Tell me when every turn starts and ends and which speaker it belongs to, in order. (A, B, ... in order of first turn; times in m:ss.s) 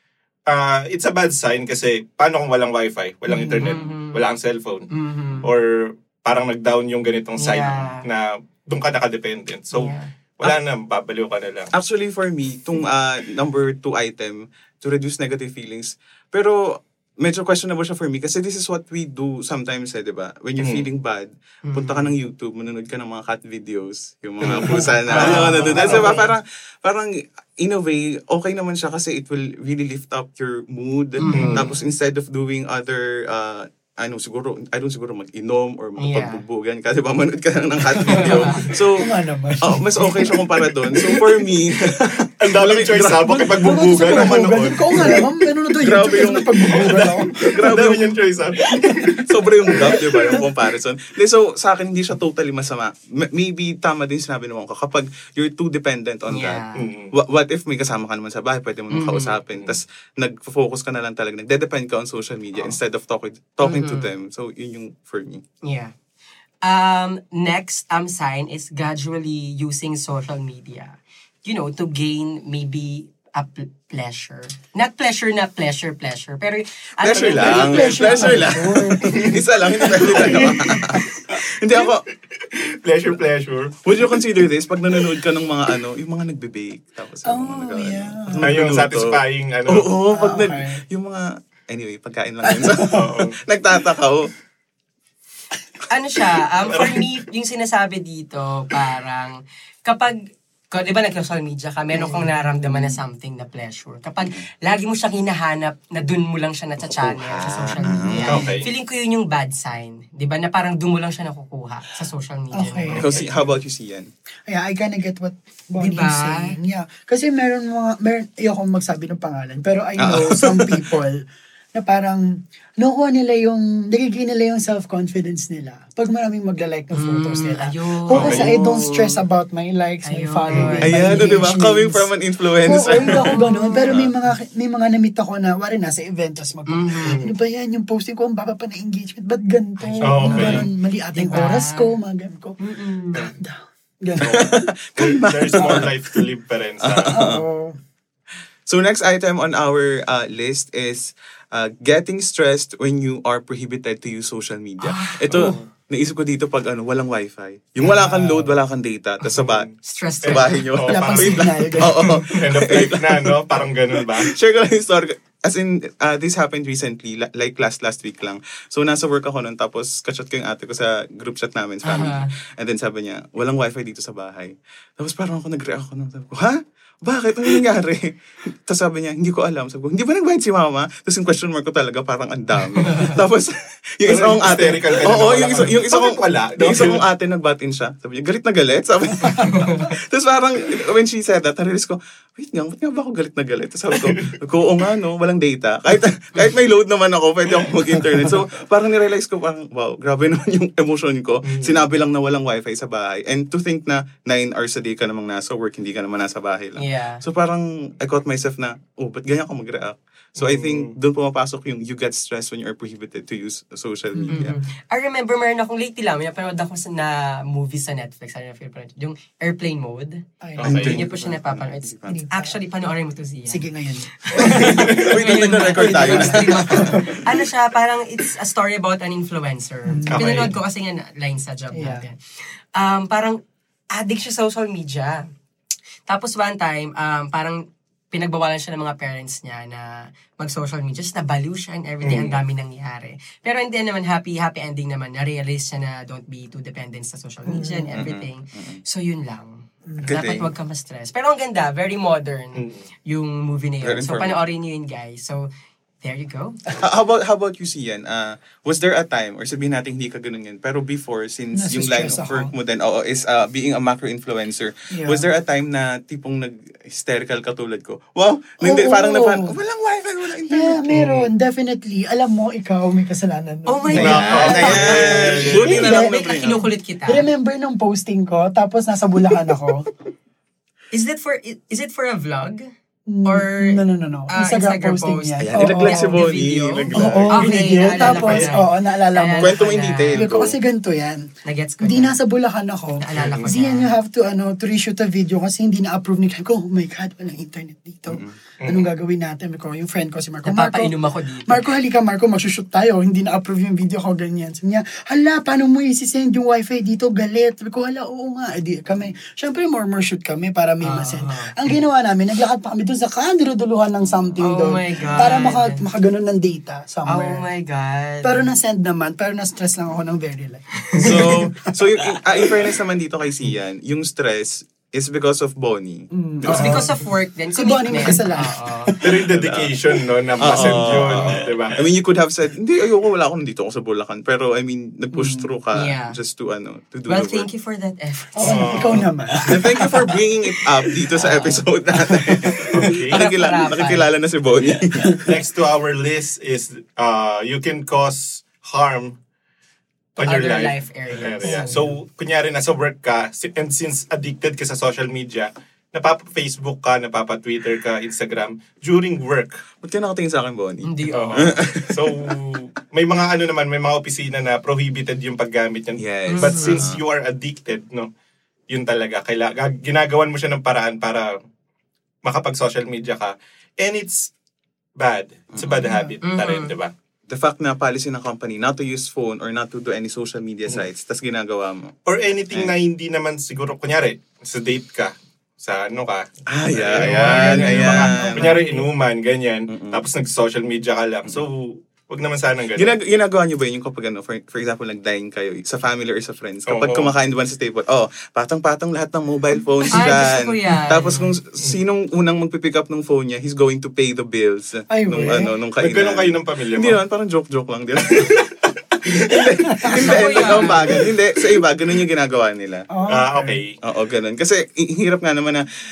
0:00.4-0:04.9 A
0:03.3-0:04.2 B
0:04.9-0:05.5 B
0:05.4-0:11.7 A
0:07.4-0:08.0 B
0:09.7-0:10.1 B
0:11.7-0:48.1 C
0:20.6-0:20.9 A
0:21.6-0:22.1 B
0:24.4-0:26.2 A
0:24.6-0:26.1 D
0:25.1-0:26.3 B
0:31.2-0:31.8 B
0:31.3-0:31.5 D
0:31.3-0:31.7 A
0:36.0-0:36.4 B
0:38.0-0:38.7 B
0:38.2-0:41.5 D
0:42.4-0:45.2 A
0:43.3-0:47.8 D
0:46.7-0:50.3 A
0:48.8-0:50.4 D
0:49.0-1:05.4 C
0:56.3-0:56.9 B
0:56.8-0:57.1 A
0:58.9-0:59.4 B
1:03.6-1:04.1 B
1:05.6-1:05.9 B
1:06.6-1:18.6 B
1:17.0-1:22.0 C
1:17.1-1:21.0 D
1:19.0-1:19.4 A
1:20.0-1:21.0 A
1:22.3-1:23.8 A
1:23.8-1:34.3 C
1:27.2-1:28.6 D
1:28.4-1:29.9 A
1:30.1-1:30.8 D
1:32.4-1:33.2 D
1:32.8-1:33.4 A
1:35.9-1:40.2 B
1:36.7-1:37.1 A
1:40.7-1:53.2 B
1:41.9-1:43.0 D
1:46.8-1:48.5 C
1:47.8-1:48.6 D
1:48.3-1:48.7 A
1:52.5-1:53.2 D
1:52.9-1:53.2 A
1:52.9-1:54.1 C
1:54.5-2:12.1 D
1:55.8-1:56.6 B
2:00.0-2:00.8 C
2:06.9-2:09.1 B
2:08.1-2:08.5 A
2:10.0-2:11.5 B
2:10.5-2:10.8 A
2:10.8-2:13.4 C
2:12.6-2:22.6 D
2:12.9-2:13.9 B
2:13.9-2:14.1 C
2:16.7-2:17.2 B
2:17.0-2:17.4 A
2:19.8-2:21.9 B
2:20.0-2:20.7 A
2:20.3-2:20.6 C
2:22.6-2:23.3 B
2:23.1-2:24.7 D
2:24.2-2:26.2 C
2:24.2-2:27.2 A
2:25.6-2:25.9 D
2:26.8-2:27.4 C
2:27.1-2:27.8 D
2:28.6-2:39.7 C
2:34.8-2:35.6 B
2:35.3-2:35.6 A
2:37.8-2:38.5 B
2:39.4-2:44.3 A
2:39.8-2:40.6 B
2:40.2-3:34.6 C
2:40.9-2:42.4 D
2:51.8-2:52.3 B
3:02.9-3:03.2 B
3:04.0-3:07.0 A
3:09.4-3:09.8 B
3:13.9-3:14.4 A
3:21.4-3:21.8 A
3:26.8-3:27.2 B
3:30.4-3:30.9 A
3:34.1-3:34.6 D
3:34.3-3:52.2 B
3:40.4-3:41.1 D
3:40.6-3:41.0 A
3:40.6-3:42.2 C
3:42.1-3:42.6 D
3:43.5-3:47.3 D
3:44.3-3:45.2 A
3:44.4-3:47.1 C
3:49.9-3:50.4 D
3:50.1-3:50.5 A
3:51.7-3:52.0 D
3:52.8-3:53.4 B
3:53.9-3:55.2 B
3:56.1-4:15.5 B
4:02.1-4:02.3 C
4:07.5-4:07.9 D
4:07.9-4:08.8 C
4:09.9-4:10.1 D
4:10.0-4:10.5 C
4:12.6-4:12.9 A
4:13.8-4:14.4 C
4:16.0-4:16.6 B
4:16.8-4:31.2 C
4:21.5-4:22.5 D
4:24.9-4:25.3 D
4:28.6-4:29.6 D
4:30.4-4:39.9 D
4:30.9-4:31.2 A
4:33.6-4:37.3 B
4:33.9-4:36.6 C
4:33.9-4:35.8 A
4:40.9-4:42.7 B
4:43.1-4:46.2 D
4:43.2-4:50.3 B
4:45.4-4:47.5 C
4:46.9-4:48.6 A
4:46.9-4:49.6 D
4:49.4-4:50.6 C
4:50.1-5:00.9 D
4:51.4-4:52.2 B
4:53.0-4:53.9 B
4:58.1-4:58.4 C
4:58.6-4:58.9 A
5:00.4-5:01.7 B
5:01.4-5:17.4 D
5:10.8-5:11.5 B
5:14.4-5:15.8 B
5:15.0-5:15.2 C
5:17.1-5:18.5 B
5:18.2-5:21.7 D
5:21.0-5:26.9 C
5:26.1-5:26.9 D
5:26.5-5:29.0 B
5:27.6-5:28.6 D
5:28.9-5:37.5 C
5:29.0-5:31.8 A
5:35.1-5:35.5 D
5:35.7-5:36.2 B
5:37.1-5:39.5 B
5:38.4-5:40.2 D
5:38.4-5:39.0 A
5:39.4-5:45.3 C
5:40.9-5:44.1 B
5:42.7-5:43.2 A
5:45.2-5:49.2 A
5:50.2-5:59.6 A
5:50.2-5:51.7 B
5:51.4-5:51.9 D
5:59.8-6:02.4 C
6:00.8-6:01.6 B
6:01.1-6:08.1 A
6:06.0-6:07.0 C
6:06.3-6:06.9 B
6:08.7-6:11.4 A
6:12.2-6:14.3 A
6:15.0-6:16.9 A
6:15.5-6:15.9 C
6:15.8-6:16.1 D
6:16.2-6:16.8 B
6:17.3-6:21.9 C
6:22.1-6:32.9 A
6:26.5-6:28.6 C
6:27.0-6:28.9 D
6:29.7-6:30.0 C
6:32.8-6:48.5 C
6:36.7-6:37.1 A
6:39.9-6:41.3 B
6:44.9-6:45.5 D
6:45.8-6:47.0 A
6:48.2-6:48.4 A
6:49.0-6:49.4 A
6:49.1-6:52.9 C
6:49.8-6:50.7 D
6:49.9-6:51.0 B
6:52.9-6:53.6 D
6:53.1-6:53.8 A
6:53.8-6:55.6 C